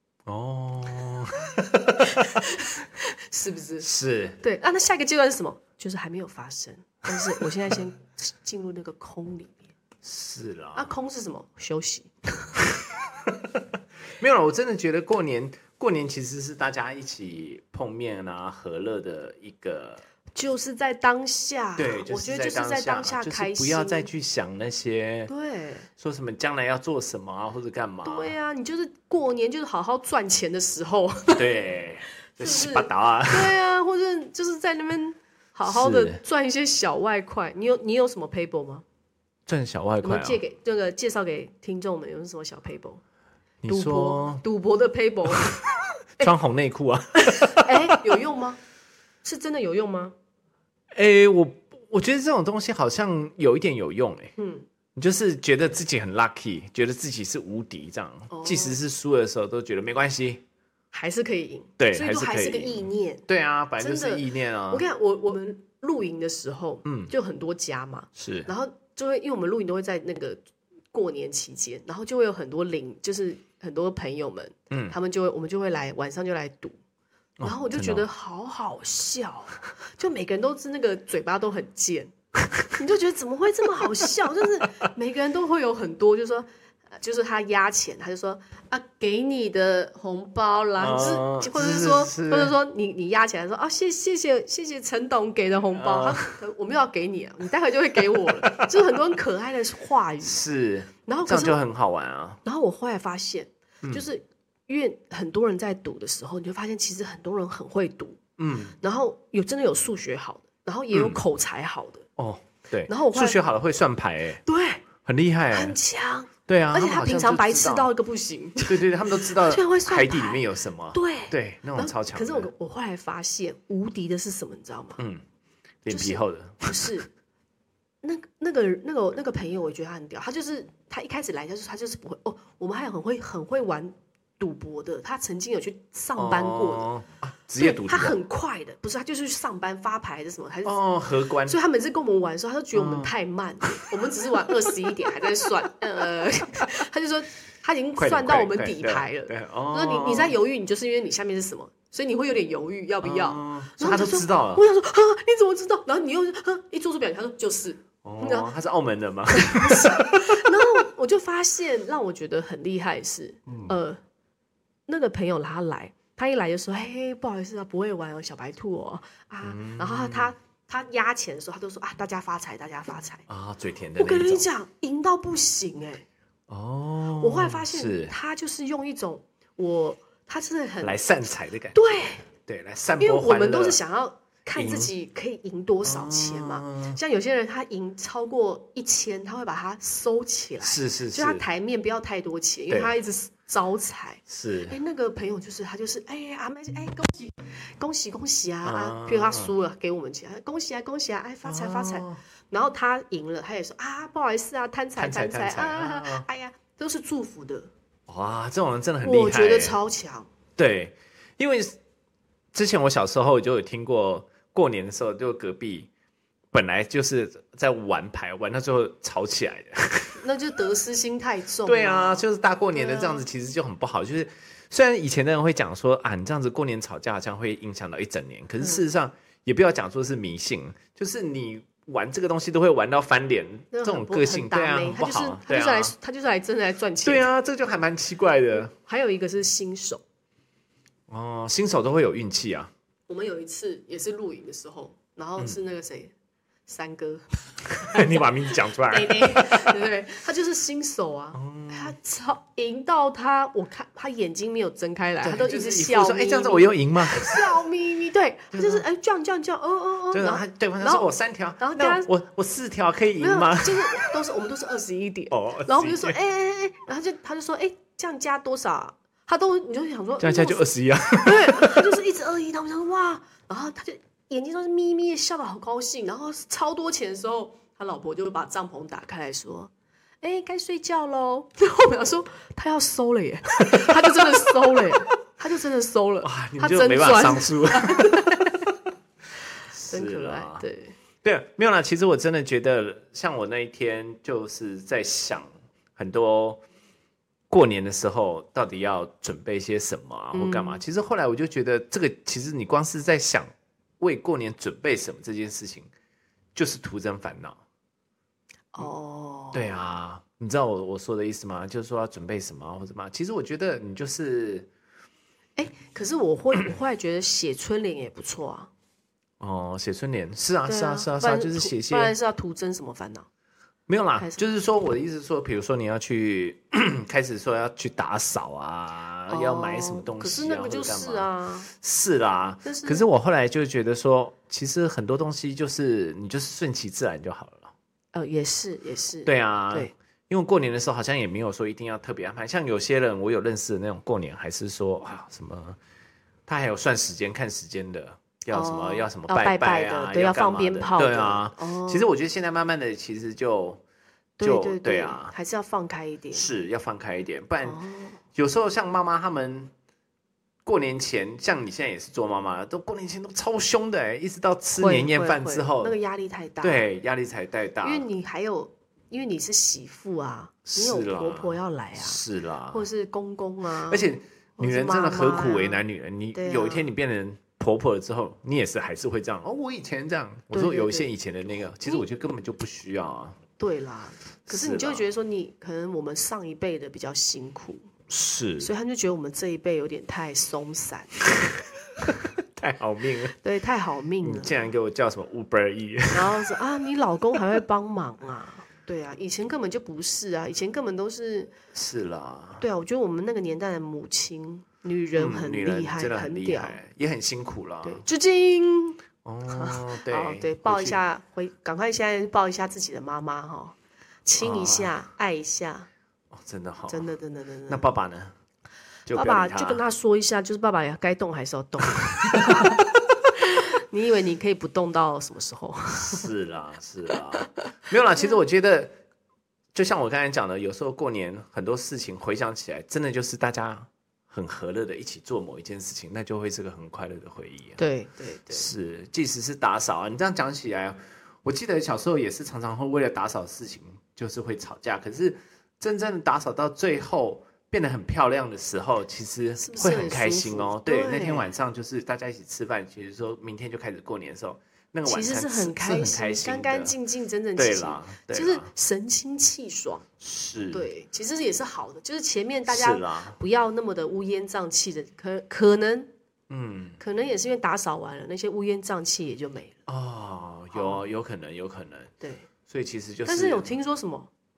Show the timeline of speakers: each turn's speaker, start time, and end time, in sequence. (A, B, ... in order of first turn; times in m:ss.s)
0:00.2-0:02.2 A
0:02.1-0:03.9 B
0:03.8-0:04.4 A
0:04.4-0:09.7 B
0:10.0-0:10.9 A
0:10.8-0:12.5 B
0:13.2-0:13.6 A
0:14.2-0:20.0 A
0:20.4-0:24.1 B
0:21.8-0:25.3 A
0:25.3-0:25.9 B
0:26.0-0:28.4 A
0:28.0-0:31.5 B
0:31.4-0:33.6 A
0:32.4-0:38.8 B
0:35.7-0:36.2 A
0:39.5-0:40.4 A
0:40.0-0:43.0 B
0:43.6-0:44.4 A
0:43.7-0:45.6 B
0:46.2-0:48.0 A
0:47.2-0:48.6 B
0:49.2-0:50.1 B
0:50.9-0:54.3 A
0:54.4-0:54.7 B
0:55.0-1:00.4 A
0:58.3-0:58.8 B
1:00.9-1:03.2 B
1:01.8-1:04.8 A
1:03.8-1:10.4 B
1:06.8-1:07.1 A
1:08.2-1:08.5 A
1:10.9-1:16.8 B
1:14.7-1:15.0 A
1:17.4-1:18.1 A
1:17.4-1:22.1 B
1:22.7-1:40.4 B
1:30.8-1:32.6 A
1:35.7-1:36.4 A
1:38.1-1:39.0 A
1:40.2-1:42.4 A
1:41.1-1:41.6 B
1:42.4-1:48.2 B
1:48.4-1:48.8 A
1:48.8-1:52.1 B
1:50.9-1:51.2 A
1:52.2-1:54.4 A
1:52.9-1:53.4 B
1:54.5-1:54.8 B
1:55.0-1:55.8 A
1:55.5-2:00.4 B
1:56.5-1:57.9 A
1:58.6-2:02.5 A
2:00.9-2:05.0 B
2:05.0-2:05.2 A
2:05.8-2:07.0 A
2:05.9-2:07.1 B
2:08.0-2:16.9 B
2:16.2-2:18.2 A
2:17.6-2:20.8 B
2:20.6-2:21.6 A
2:21.4-2:38.5 B
2:22.7-2:23.1 A
2:28.0-2:30.4 A
2:33.0-2:34.6 A
2:38.0-2:40.5 A
2:39.3-2:44.0 B
2:43.5-2:43.7 A
2:44.9-2:53.2 B
2:49.4-2:50.3 A
2:53.3-2:54.4 A
2:54.0-2:56.0 B
2:56.5-2:58.1 A
2:57.2-3:02.3 B
3:00.8-3:03.8 A
3:03.0-3:27.7 B
3:04.6-3:04.9 A
3:05.8-3:07.0 A
3:10.6-3:11.4 A
3:14.3-3:14.8 A
3:18.6-3:19.5 A
3:21.4-3:22.2 A
3:25.0-3:26.3 A
3:28.1-3:29.8 A
3:29.0-3:30.3 B
3:30.6-3:31.8 A
3:32.5-3:35.9 A
3:36.5-3:40.2 A
3:40.2-3:43.2 B
3:41.6-3:55.9 A
3:53.7-3:57.3 B
3:57.0-3:58.7 A
3:58.7-4:00.0 B
4:01.1-4:02.7 A
4:03.1-4:06.1 B
4:06.7-4:21.1 B
4:07.8-4:09.9 A
4:11.3-4:11.9 A
4:15.2-4:17.5 A
4:18.5-4:18.8 A
4:20.1-4:24.1 A
4:21.6-4:22.1 B
4:23.2-4:30.7 B
4:25.3-4:26.2 A
4:30.2-4:31.9 A
4:31.2-4:39.7 B
4:40.2-4:48.7 B
4:43.7-4:44.9 A
4:46.2-4:48.6 A
4:49.7-4:50.6 A
4:49.9-4:51.0 B
4:51.2-4:56.6 A
4:57.5-5:03.5 A
5:00.3-5:00.8 B
5:04.0-5:05.9 A
5:06.6-5:07.6 A
5:08.7-5:09.9 B
5:09.5-5:14.7 A
5:15.6-5:18.7 B
5:19.4-5:22.1 A
5:20.7-5:23.3 B
5:23.9-5:37.7 A
5:29.3-5:31.7 B
5:32.6-5:33.1 B
5:38.1-5:39.9 B
5:39.3-5:45.8 A
5:46.5-5:53.8 A
5:48.5-5:52.1 B
5:54.4-5:56.5 B
5:54.4-5:55.3 A
5:56.3-5:57.8 A
5:57.6-5:58.2 B
5:58.4-5:59.7 A
6:00.6-6:06.0 A
6:04.8-6:06.9 B
6:06.6-6:08.1 A
6:07.8-6:15.8 B
6:10.7-6:12.9 A
6:13.9-6:23.4 A
6:16.3-6:16.9 B
6:20.5-6:21.1 B
6:23.6-6:27.9 B
6:24.5-6:25.0 A
6:28.1-6:28.7 A
6:28.6-6:31.2 B
6:32.1-6:33.4 A
6:33.4-6:34.6 B
6:34.2-6:36.5 A
6:36.1-6:41.5 B
6:41.7-6:42.6 A
6:42.6-6:46.8 B
6:45.2-6:48.0 A
6:47.8-6:55.9 B
6:49.2-6:51.0 A
6:54.4-6:54.9 A
6:56.3-6:57.1 A
6:56.9-6:57.9 B
6:57.7-6:58.3 A
6:59.1-6:59.8 A
6:59.1-7:02.8 B
7:02.4-7:02.8 A
7:03.4-7:06.3 B
7:05.9-7:09.0 A
7:09.7-7:17.8 A
7:17.8-7:18.7 B
7:18.5-7:36.9 A
7:29.6-7:31.5 B
7:35.1-7:40.1 B
7:37.6-7:38.7 A
7:40.2-7:40.9 A
7:40.7-7:46.1 B
7:42.7-7:43.4 A
7:46.5-7:47.0 A
7:47.0-7:49.8 B
7:49.9-7:52.1 A
7:50.7-7:51.0 B
7:52.2-7:52.5 B
7:52.7-7:53.7 A
7:53.2-7:54.3 B